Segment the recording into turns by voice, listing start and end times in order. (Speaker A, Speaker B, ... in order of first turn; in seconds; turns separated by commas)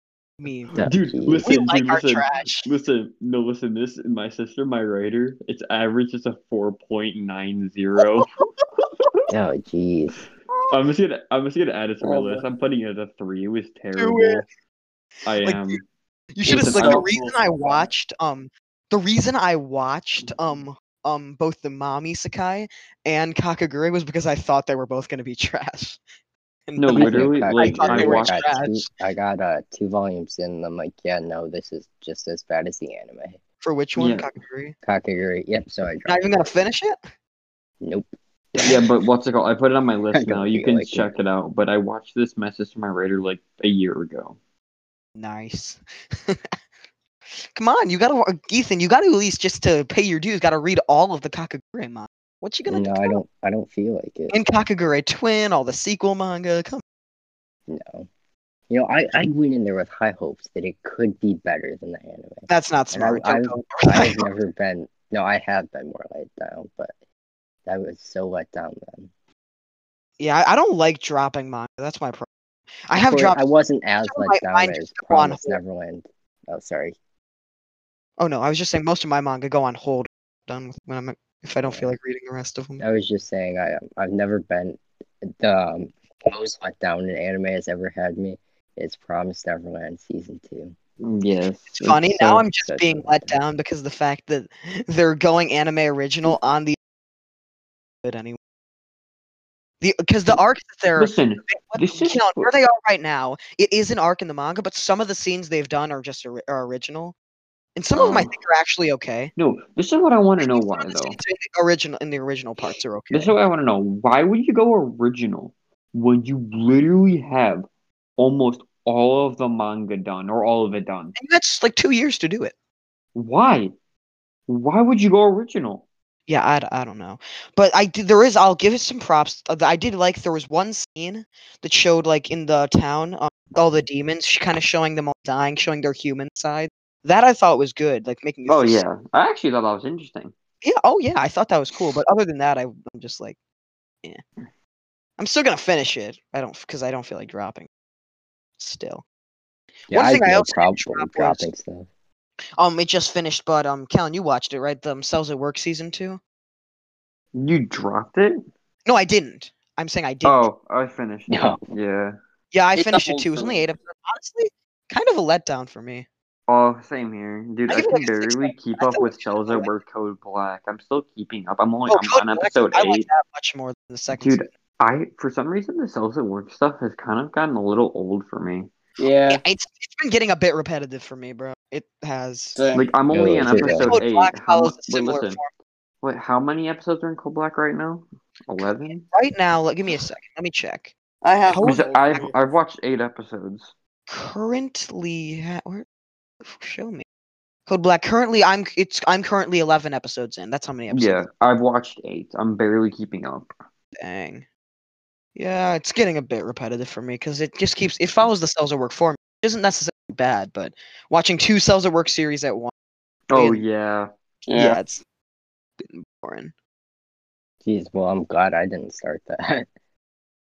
Speaker A: 0.4-0.8, Speaker B: 0.7-1.6, Speaker C: 0.8-8.3, Speaker A: 1.4-2.7, Speaker A: 8.0-8.2, Speaker C: 8.8-9.2, Speaker B: 9.3-10.2, Speaker A: 10.5-10.8, Speaker C: 10.7-14.5, Speaker D: 12.0-12.5, Speaker A: 14.0-14.4, Speaker C: 15.3-15.8, Speaker A: 15.4-15.8, Speaker A: 16.4-26.0, Speaker D: 16.4-17.8, Speaker C: 16.5-17.1, Speaker A: 26.7-28.9, Speaker C: 26.8-28.6, Speaker B: 26.9-33.4, Speaker A: 33.6-34.8, Speaker C: 34.0-34.3, Speaker B: 34.8-36.5, Speaker A: 36.1-37.0, Speaker B: 37.8-38.9, Speaker C: 38.6-44.4, Speaker B: 40.1-41.1, Speaker A: 45.2-46.5, Speaker A: 47.5-53.2, Speaker B: 52.7-54.4, Speaker A: 54.3-56.8, Speaker B: 57.7-58.1, Speaker B: 58.7-66.9, Speaker A: 62.5-64.3, Speaker B: 67.7-69.1, Speaker A: 70.2-72.3, Speaker A: 72.9-73.4, Speaker B: 72.9-77.0, Speaker A: 74.1-75.6, Speaker A: 78.2-82.8, Speaker B: 81.7-81.9, Speaker B: 82.8-90.8, Speaker C: 91.0-92.4, Speaker A: 91.7-96.8, Speaker B: 92.5-93.4, Speaker A: 98.0-98.4, Speaker A: 99.8-107.2, Speaker C: 101.0-102.5, Speaker A: 107.8-109.3, Speaker C: 107.9-108.3, Speaker C: 109.4-111.2, Speaker A: 110.4-113.3, Speaker C: 112.6-117.7, Speaker C: 118.2-121.2, Speaker A: 121.2-122.5, Speaker C: 123.2-123.7, Speaker C: 124.5-125.8, Speaker A: 126.3-138.9, Speaker C: 138.5-140.3, Speaker A: 140.6-143.4, Speaker A: 145.2-147.7, Speaker A: 148.6-149.0, Speaker B: 149.9-151.9, Speaker A: 149.9-151.5, Speaker A: 152.6-156.2, Speaker C: 157.3-158.4, Speaker A: 158.9-160.5, Speaker C: 160.2-162.2, Speaker B: 161.3-161.6, Speaker A: 162.5-166.1, Speaker D: 162.8-163.7, Speaker C: 166.5-173.1, Speaker A: 167.7-169.7, Speaker A: 171.9-174.5, Speaker C: 174.1-178.7, Speaker D: 179.0-179.4, Speaker A: 179.3-182.6, Speaker D: 182.6-182.9, Speaker C: 182.7-185.4, Speaker B: 183.1-184.0, Speaker A: 183.9-185.5, Speaker C: 186.0-189.1, Speaker A: 188.6-190.9, Speaker D: 191.2-192.4, Speaker A: 191.4-191.8, Speaker C: 191.6-193.7, Speaker A: 194.1-195.8, Speaker A: 196.4-197.1, Speaker A: 197.7-201.3, Speaker C: 200.9-203.5, Speaker A: 204.0-204.5, Speaker A: 205.4-212.7, Speaker C: 213.3-214.1, Speaker A: 213.3-213.6, Speaker D: 214.5-214.8, Speaker A: 214.5-215.0, Speaker A: 215.8-216.5, Speaker B: 217.6-219.7